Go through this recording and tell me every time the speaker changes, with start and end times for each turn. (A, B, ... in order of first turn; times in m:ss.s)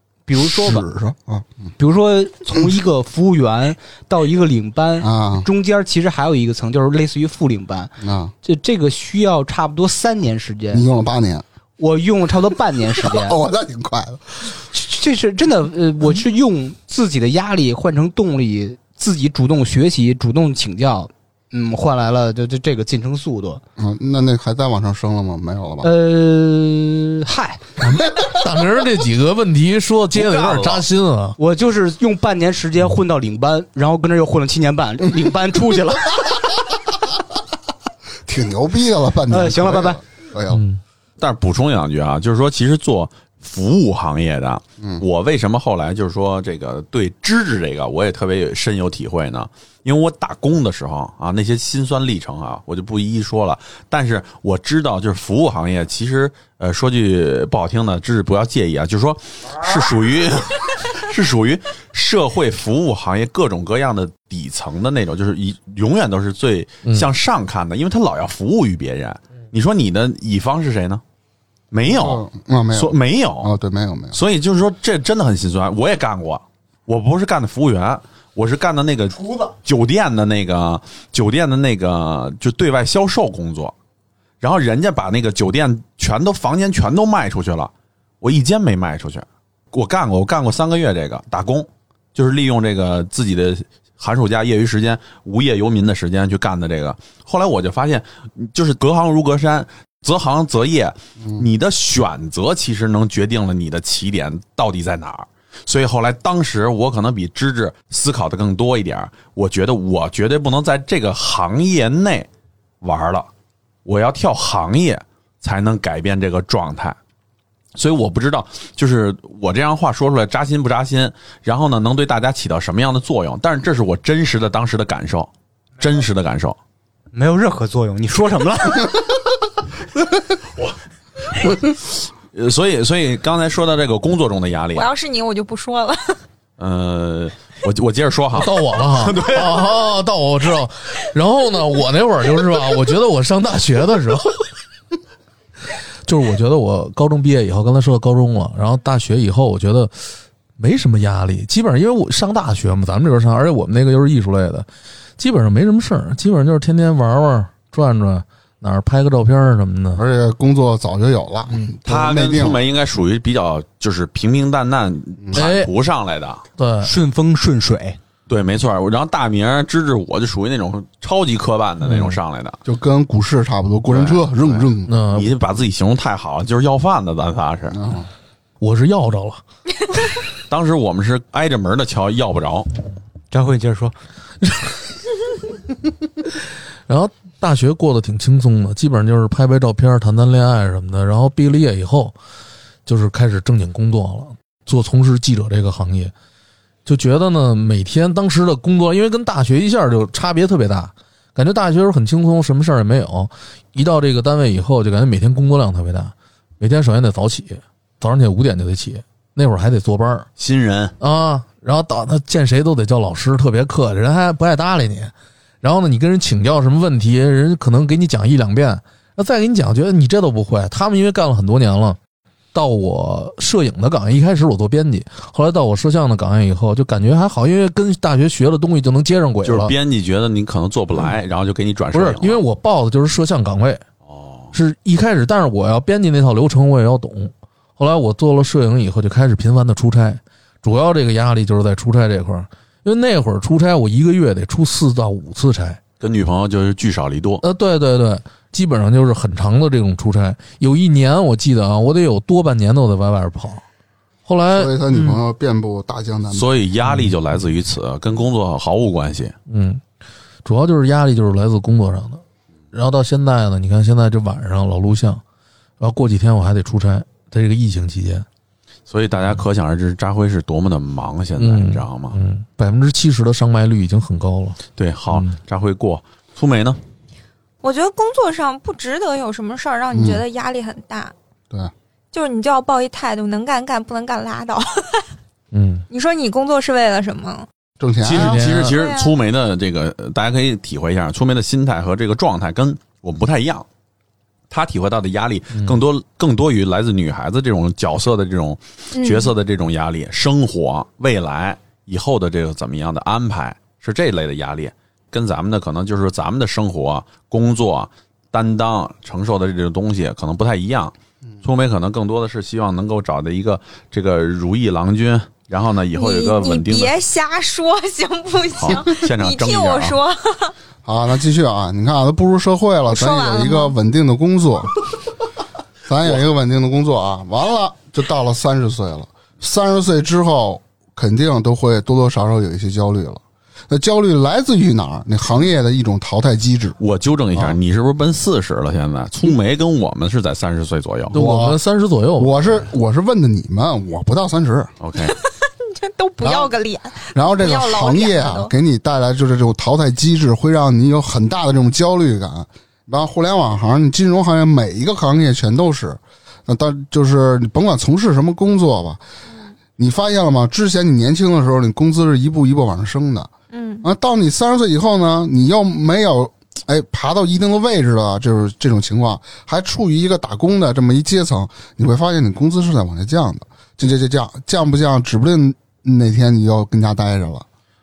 0:00.3-0:00.9 A
0:00.4-0:01.7 B
0:01.8-0:07.9 A
0:05.0-0:05.5 B
0:08.0-0:08.3 B
0:08.4-0:10.8 A
0:10.7-0:11.4 B
0:11.8-0:13.4 A
0:13.0-0:14.5 B
0:14.6-0:23.6 A
0:23.8-0:25.9 B
0:25.8-0:27.7 A
0:27.8-0:31.4 C
0:30.2-0:30.8 D
0:31.4-0:36.5 A
0:38.3-0:40.6 B
0:39.3-0:40.0 A
0:40.5-0:40.8 C
0:41.2-1:11.0 D
1:11.7-1:13.5 D
1:11.9-1:14.2 B
1:14.1-1:23.7 D
1:24.4-1:52.3 D
1:52.8-1:53.3 D
1:53.8-1:57.0 D
1:57.8-2:06.6 D
2:07.1-2:09.2 A
2:11.4-2:14.9 D
2:14.7-2:16.2 E
2:16.6-2:19.6 D
2:18.3-2:24.4 C
2:26.0-2:29.9 C
2:30.6-2:34.7 C
2:35.2-2:40.0 C
2:40.0-2:42.6 B
2:41.9-2:46.4 D
2:45.3-2:45.7 C
2:46.6-2:46.9 C
2:46.8-2:48.0 A
2:48.3-2:52.6 D
2:51.8-2:52.2 C
2:52.6-2:54.9 B
2:53.9-2:57.8 D
2:54.9-2:55.3 C
2:57.7-2:58.1 B
2:58.6-2:59.4 C
3:00.5-3:02.7 D
3:03.3-3:04.0 A
3:04.4-3:04.8 C
3:06.9-3:12.2 C
3:12.9-3:16.1 C
3:16.9-3:30.3 C
3:30.4-3:31.0 D
3:31.0-3:42.0 C
3:42.5-3:49.7 C
3:49.4-3:52.4 D
3:51.9-3:53.8 C
3:54.1-3:54.5 D
3:54.5-4:05.8 C
4:06.0-4:07.4 D
4:07.4-4:13.6 C
4:14.3-4:15.2 C
4:14.5-4:16.5 B
4:16.3-4:19.4 D
4:16.9-4:17.1 C
4:19.5-4:19.8 C
4:20.4-4:25.2 C
4:25.8-4:28.3 C
4:28.9-4:32.2 D
4:31.4-4:35.4 C
4:34.8-4:36.8 D
4:37.6-4:41.1 E
4:39.9-4:40.2 B
4:42.1-4:45.0 E
4:45.5-4:45.9 C
4:45.9-4:47.5 E
4:47.8-4:48.4 B
4:48.0-4:53.7 D
4:48.1-4:48.8 C
4:48.6-4:49.2 E
4:54.5-5:17.0 D
4:58.9-4:59.3 E
5:15.9-5:20.5 E
5:18.6-5:20.0 D
5:20.8-5:24.8 B
5:22.9-5:23.8 E
5:25.9-5:36.8 B
5:36.8-5:41.2 D
5:41.1-5:41.6 B
5:41.1-5:42.7 C
5:42.2-5:44.7 B
5:44.8-5:45.2 D
5:45.0-5:48.5 E
5:46.2-5:46.5 B
5:47.1-5:59.0 B
5:59.8-6:03.3 B
6:03.5-6:03.9 E
6:03.8-6:17.5 B